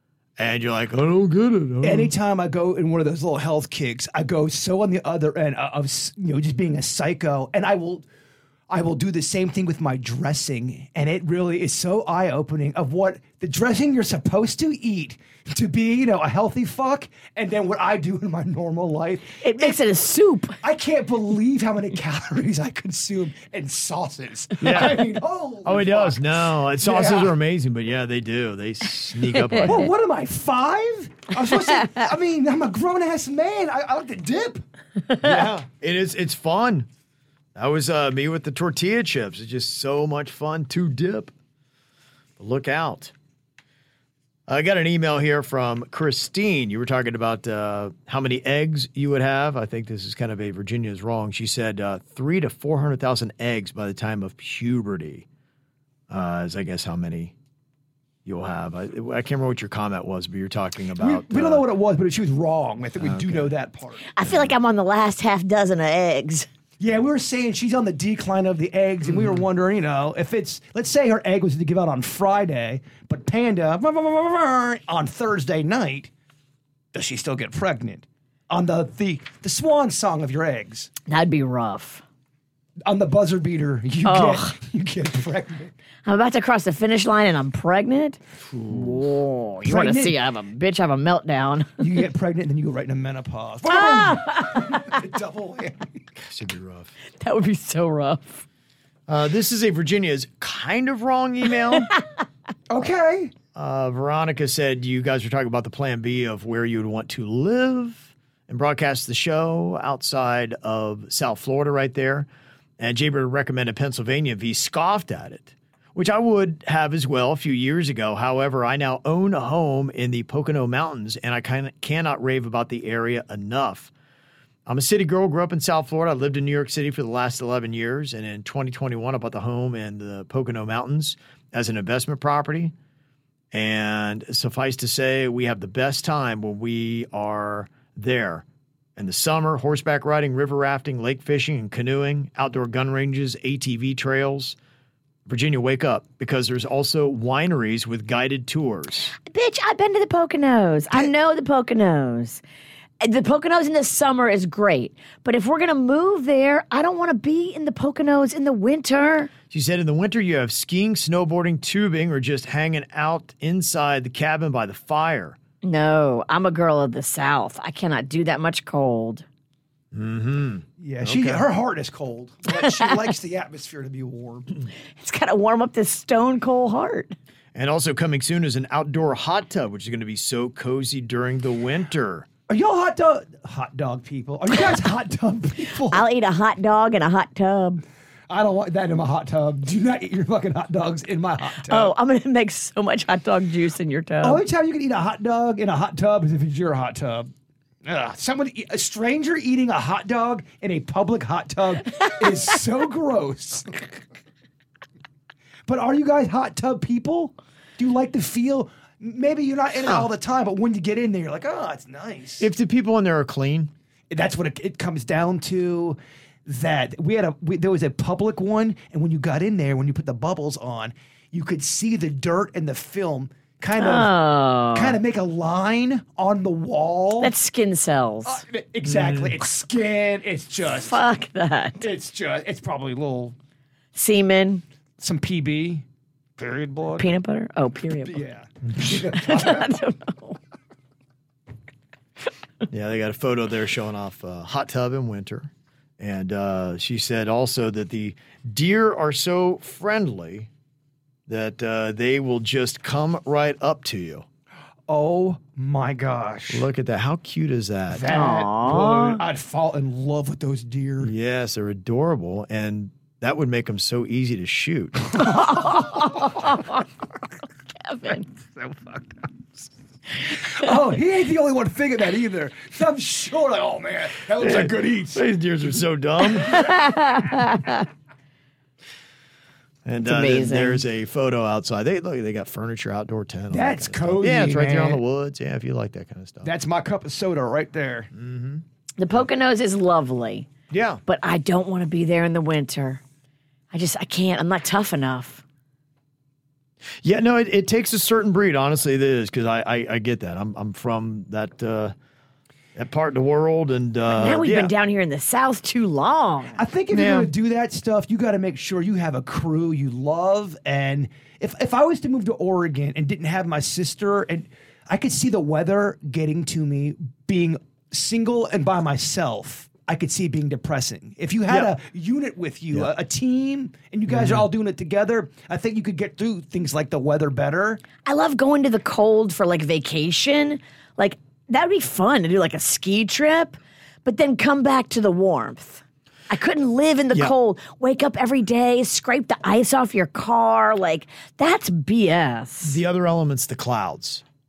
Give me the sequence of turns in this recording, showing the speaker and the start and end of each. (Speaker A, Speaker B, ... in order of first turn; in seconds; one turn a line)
Speaker A: 0.4-2.1
Speaker B: 1.8-8.1
Speaker B: 8.7-19.8
Speaker C: 19.4-20.6
Speaker B: 20.6-26.2
Speaker A: 24.6-29.9
Speaker B: 26.8-27.3
Speaker C: 29.4-29.7
Speaker B: 29.6-34.6
Speaker C: 35.1-35.5
Speaker A: 35.2-36.9
Speaker A: 37.5-41.3
Speaker A: 42.4-43.1
Speaker A: 44.5-55.2
Speaker A: 56.1-57.3
Speaker A: 58.2-61.7
Speaker B: 61.0-64.0
Speaker A: 63.0-63.5
Speaker C: 64.2-66.5
Speaker A: 64.2-64.5
Speaker B: 66.8-76.1
Speaker A: 69.0-69.5
Speaker B: 76.9-80.9
Speaker C: 81.1-82.0
Speaker B: 82.9-85.7
Speaker C: 84.0-84.5
Speaker C: 86.0-91.8
Speaker A: 88.5-89.1
Speaker B: 89.7-90.2
Speaker B: 91.8-95.9
Speaker C: 93.7-94.9
Speaker A: 96.2-96.9
Speaker C: 97.2-98.4
Speaker A: 99.1-101.9
Speaker B: 102.7-103.3
Speaker A: 103.5-123.9
Speaker A: 124.7-132.7
Speaker A: 133.5-138.4
Speaker A: 138.9-144.6
Speaker A: 145.2-149.1
Speaker C: 149.2-152.4
Speaker C: 153.0-159.3
Speaker A: 159.5-165.4
Speaker C: 165.6-169.2
Speaker A: 169.9-171.4
Speaker B: 170.8-174.5
Speaker C: 172.5-172.9
Speaker C: 175.0-177.2
Speaker A: 177.5-182.3
Speaker B: 182.5-186.0
Speaker C: 185.9-187.8
Speaker B: 188.3-191.9
Speaker C: 191.6-194.4
Speaker B: 194.2-197.3
Speaker B: 197.8-203.9
Speaker B: 205.7-212.5
Speaker A: 212.4-213.7
Speaker B: 214.1-224.1
Speaker C: 223.8-225.0
Speaker B: 224.7-227.3
Speaker C: 227.2-228.4
Speaker B: 228.2-231.0
Speaker A: 228.8-229.4
Speaker C: 230.6-231.9
Speaker B: 231.8-233.4
Speaker C: 233.9-234.6
Speaker B: 235.0-235.8
Speaker B: 236.4-237.1
Speaker C: 237.0-238.2
Speaker B: 238.0-239.7
Speaker C: 238.8-240.4
Speaker A: 242.7-250.5
Speaker A: 251.3-254.2
Speaker B: 254.9-256.6
Speaker A: 256.5-258.1
Speaker B: 257.9-261.1
Speaker C: 258.1-259.2
Speaker A: 261.0-265.2
Speaker B: 265.1-266.4
Speaker C: 265.6-266.6
Speaker C: 267.9-268.3
Speaker B: 268.5-269.2
Speaker B: 270.2-275.2
Speaker A: 274.4-276.7
Speaker C: 276.4-277.9
Speaker A: 279.9-286.5
Speaker C: 280.0-280.8
Speaker B: 283.5-285.0
Speaker B: 286.4-288.1
Speaker A: 288.1-288.6
Speaker C: 289.0-290.5
Speaker A: 290.7-291.0
Speaker C: 291.1-293.0
Speaker C: 293.7-295.4
Speaker A: 297.0-301.9
Speaker A: 302.7-304.7
Speaker C: 304.1-306.6
Speaker B: 306.6-327.8
Speaker A: 306.9-307.3
Speaker A: 324.1-324.5
Speaker C: 328.0-342.8
Speaker A: 342.6-344.2